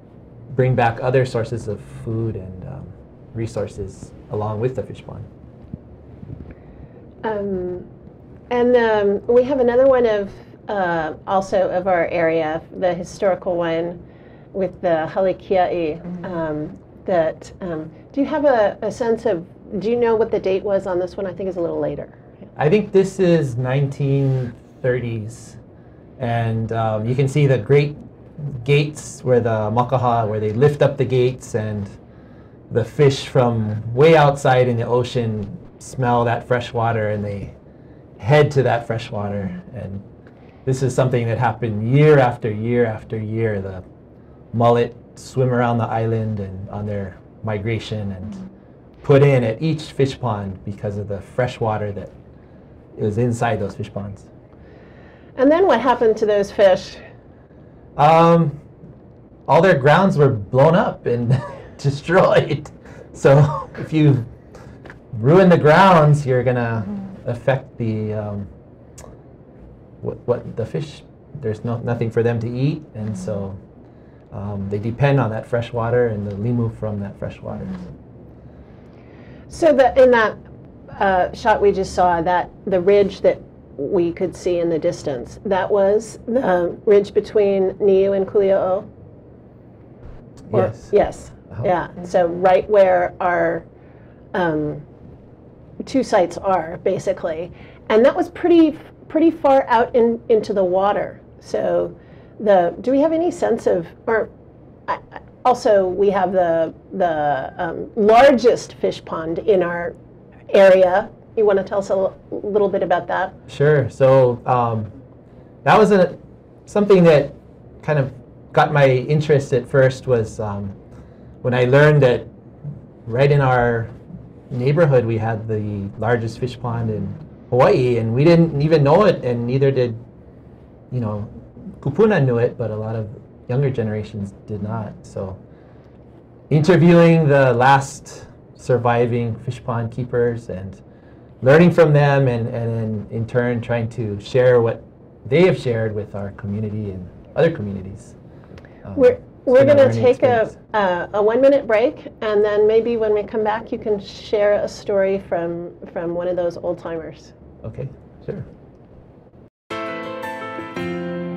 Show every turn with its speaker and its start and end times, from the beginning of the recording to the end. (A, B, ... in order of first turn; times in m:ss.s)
0:00.5-0:05.3 A
0:07.2-0:07.9 B
0:08.5-0:14.0 B
0:14.5-0:22.2 B
0:22.6-0:25.6 A
0:26.2-0:31.9 A
0:32.7-0:37.5 A
0:38.2-0:40.0 A
0:40.6-0:43.8 A
0:44.5-0:48.4 A
0:49.0-0:52.1 A
0:53.0-0:54.3 A
0:55.4-0:57.0 B
0:58.0-0:58.6 A
0:59.5-1:04.3 A
1:05.1-1:08.5 A
1:10.0-1:13.6 A
1:14.3-1:17.8 A
1:19.5-1:20.4 B
1:20.9-1:28.9 B
1:30.5-1:30.9 A
1:30.5-1:33.7 B
1:34.3-1:34.8 B
1:35.8-1:44.3 B
1:44.9-1:50.0 B
1:50.5-1:53.4 B
1:53.5-1:54.9 A
1:55.6-2:00.8 A
2:01.4-2:02.3 A
2:03.0-2:03.9 A
2:04.5-2:10.0 A
2:10.9-2:15.4 A
2:16.5-2:20.8 A
2:21.4-2:28.2 A
2:28.8-2:30.5 A
2:29.0-2:37.3 B
2:37.6-2:38.5 A